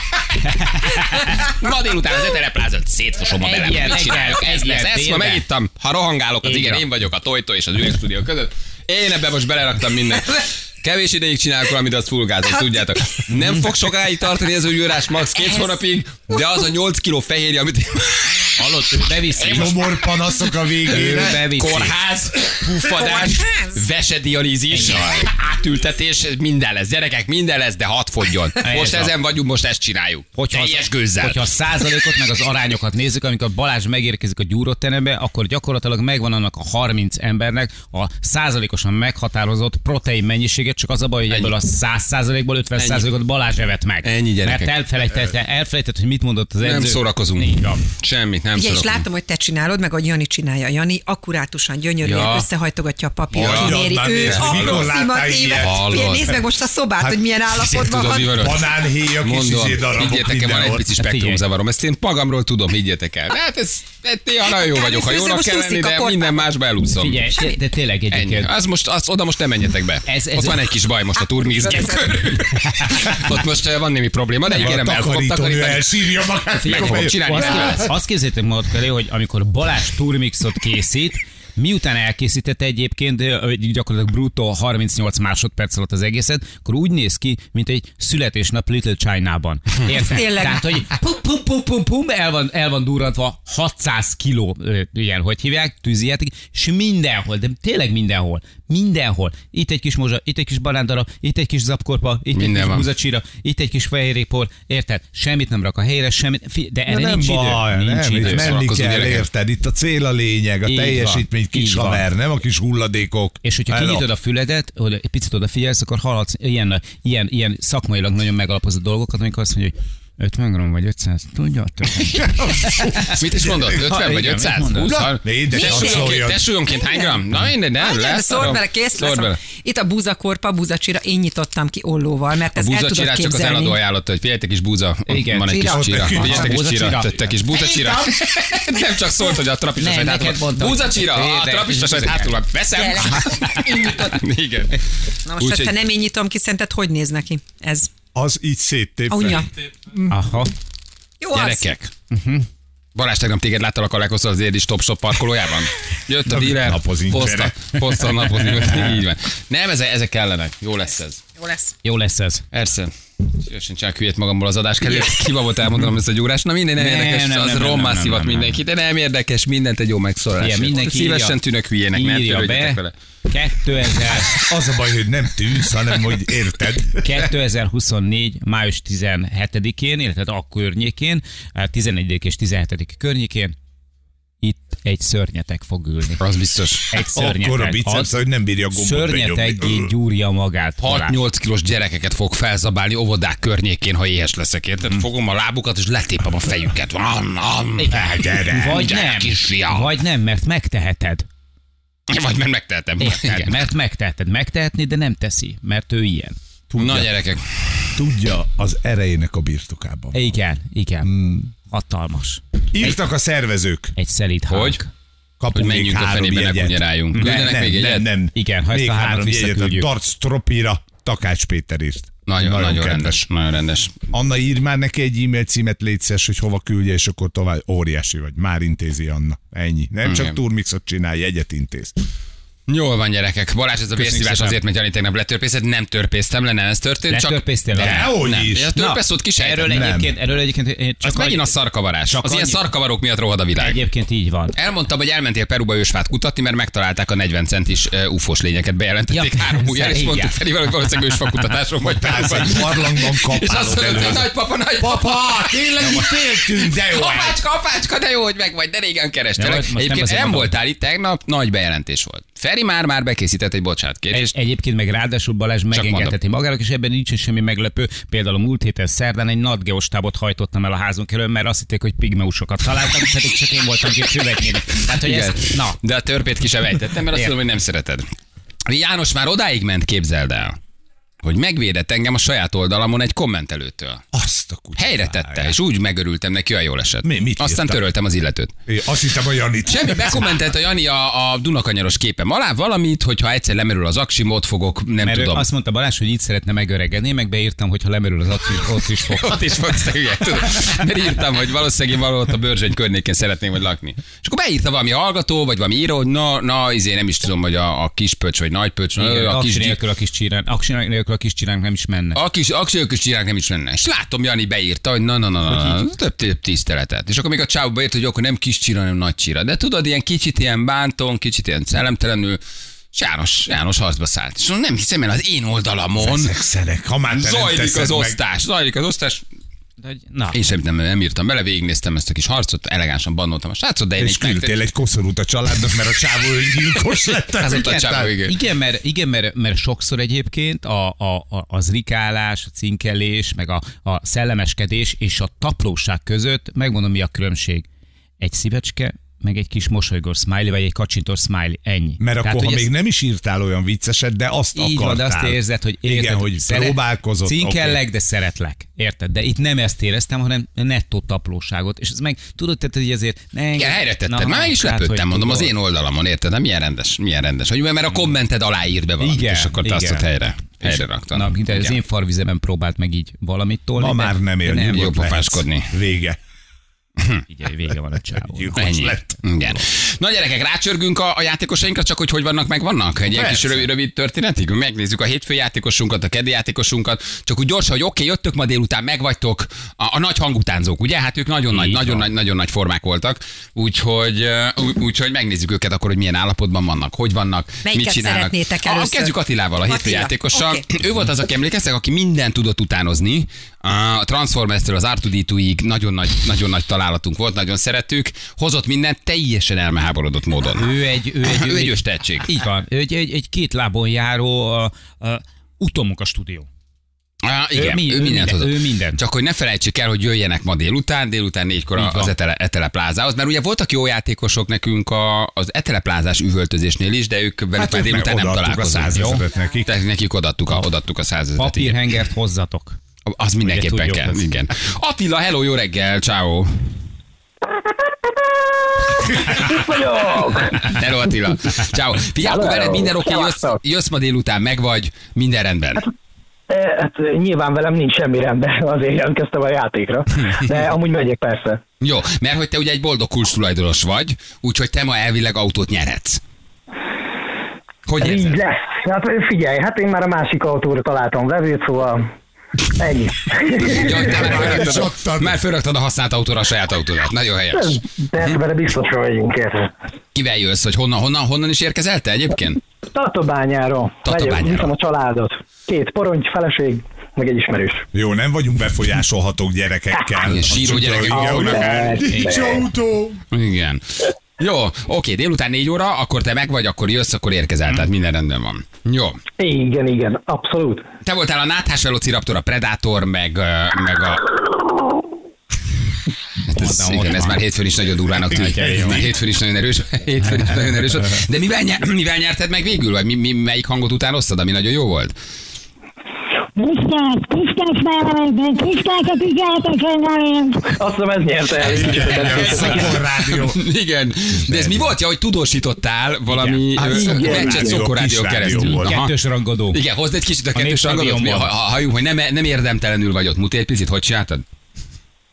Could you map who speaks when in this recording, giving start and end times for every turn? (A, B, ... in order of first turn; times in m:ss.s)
0:00.4-0:01.4 A
0:01.3-0:31.5 B
0:03.4-0:05.4 A
0:06.4-0:06.8 A
0:18.6-0:19.8 A
0:19.5-0:21.4 C
0:21.0-0:22.0 A
0:23.0-0:23.8 D
0:24.7-0:25.2 A
0:28.6-0:29.1 A
0:30.4-0:47.8 A
0:42.8-0:43.0 B
0:44.0-0:44.7 B
0:46.6-0:49.1 B
0:48.5-0:58.3 D
0:52.0-0:52.5 B
0:53.3-0:54.9 B
0:53.3-0:56.4 C
0:55.6-0:56.4 B
0:57.0-0:57.4 C
0:57.5-1:07.3 B
0:58.2-1:00.8 C
1:01.0-1:01.4 A
1:04.7-1:06.5 D
1:07.0-1:08.5 A
1:08.1-1:16.0 B
1:10.0-1:10.7 A
1:11.7-1:12.0 A
1:14.5-1:17.9 C
1:16.6-1:17.9 B
1:16.8-1:48.5 A
1:30.1-1:30.6 D
1:42.3-1:42.9 B
1:46.9-1:54.1 C
1:48.2-1:49.3 B
1:50.6-1:52.1 A
1:53.4-2:03.0 A
2:02.2-2:09.4 B
2:02.6-2:03.1 C
2:03.9-2:05.2 A
2:05.2-2:06.4 C
2:05.5-2:07.2 D
2:07.8-2:13.8 D
2:12.5-2:24.8 B
2:15.1-2:17.4 A
2:15.5-2:16.2 D
2:15.6-2:16.6 C
2:19.8-2:22.3 A
2:22.8-2:24.2 D
2:25.3-2:27.9 D
2:25.3-2:25.9 B
2:28.2-2:29.4 C
2:29.1-2:29.5 D
2:30.1-2:30.5 A
2:31.2-2:31.7 D
2:31.3-2:31.9 B
2:32.1-2:32.4 A
2:33.0-2:41.2 B
2:36.3-2:38.3 C
2:41.4-2:41.7 D
2:41.8-2:42.4 A
2:42.5-2:52.9 B
2:46.8-2:48.6 A
2:50.4-2:51.4 A
2:51.9-2:54.3 A
2:54.3-2:57.1 C
2:57.0-3:03.6 A
3:04.4-3:06.2 A
3:06.2-3:06.9 B
3:06.9-3:08.1 A
3:07.2-3:09.9 C
3:08.7-3:11.2 A
3:10.8-3:19.9 B
3:17.8-3:21.3 A
3:18.1-3:18.9 C
3:22.1-3:23.6 B
3:23.0-3:26.4 A
3:26.7-3:27.1 C
3:26.8-3:28.0 B
3:28.0-3:30.3 C
3:30.1-3:33.0 A
3:31.0-3:31.5 C
3:32.7-3:33.9 C
3:34.0-3:34.9 A
3:34.5-3:34.8 B
3:35.4-3:43.3 C
3:35.5-3:38.1 B
3:37.2-3:37.5 A
3:38.3-3:39.9 A
3:42.3-3:44.0 B
3:44.1-3:51.9 C
3:50.0-3:50.4 B
3:52.7-3:59.7 B
3:54.0-3:54.6 C
3:57.1-3:58.1 A
3:57.8-3:58.7 C
3:58.8-4:02.6 A
3:59.7-4:00.1 C
4:01.0-4:03.8 B
4:03.6-4:04.5 A
4:04.6-4:24.3 B
4:09.1-4:10.4 A
4:11.9-4:17.4 C
4:19.4-4:20.6 A
4:24.1-4:35.8 A
4:25.7-4:26.2 B
4:35.0-4:38.0 B
4:38.7-4:40.6 B
4:41.2-4:44.0 B
4:44.1-4:45.6 C
4:44.8-4:48.5 B
4:47.0-4:47.8 C
4:48.7-4:50.3 C
4:49.7-4:55.5 B
4:55.0-4:59.4 A
4:59.1-5:09.8 B
5:09.0-5:12.2 A
5:12.2-5:22.4 B
5:15.5-5:15.8 A
5:22.9-5:26.3 B
5:26.0-5:28.2 C
5:27.1-5:29.2 B
5:29.8-5:30.4 A
5:30.3-5:34.6 B
5:34.0-5:38.1 C
5:37.4-5:38.3 B
5:37.5-5:47.6 A
5:48.2-5:52.7 A
5:52.0-5:57.8 C
5:54.5-6:05.5 A
6:03.6-6:11.8 B
6:09.0-6:10.0 A
6:10.6-6:15.0 A
6:13.8-6:16.2 C
6:14.7-6:15.7 B
6:17.3-6:19.2 A
6:18.2-6:19.4 C
6:18.6-6:50.7 B
6:23.1-6:23.7 C
6:31.5-6:32.1 A
6:37.6-6:40.6 D
6:50.6-6:56.5 A
6:51.2-6:52.3 B
6:57.2-7:11.8 B
6:57.5-6:59.0 A
7:01.8-7:02.1 A
7:07.6-7:09.7 C
7:08.9-7:09.2 A
7:11.4-7:12.8 A
7:13.1-7:16.5 B
7:13.4-7:14.2 A
7:17.7-7:20.7 E
7:20.6-7:25.9 B
7:22.2-7:23.6 E
7:26.5-7:31.6 E
7:30.2-7:30.7 B
7:31.8-7:36.2 B
7:37.9-7:38.4 B
7:38.0-7:42.0 E
7:42.8-7:44.8 E
7:43.7-7:48.4 B
7:44.2-7:45.4 C
7:47.5-7:49.7 E
7:50.1-7:52.6 B
7:52.9-7:57.8 E
7:54.0-7:54.7 B
7:57.9-8:03.2 C
8:00.0-8:02.7 E
8:00.2-8:01.8 B
8:03.3-8:09.2 B
8:09.4-8:10.8 E
8:11.0-8:14.3 B
8:16.5-8:25.2 B
8:16.5-8:17.4 A
8:18.3-8:19.0 A
8:18.4-8:19.0 C
8:26.6-8:30.6 F
8:30.7-8:32.9 E
8:31.5-8:39.1 B
8:31.7-8:33.6 C
8:34.5-8:34.9 C
8:36.3-8:37.6 A
8:36.8-8:39.0 C
8:36.9-8:37.7 E
8:38.5-8:39.8 A
8:39.7-8:44.4 B
8:40.5-8:41.5 A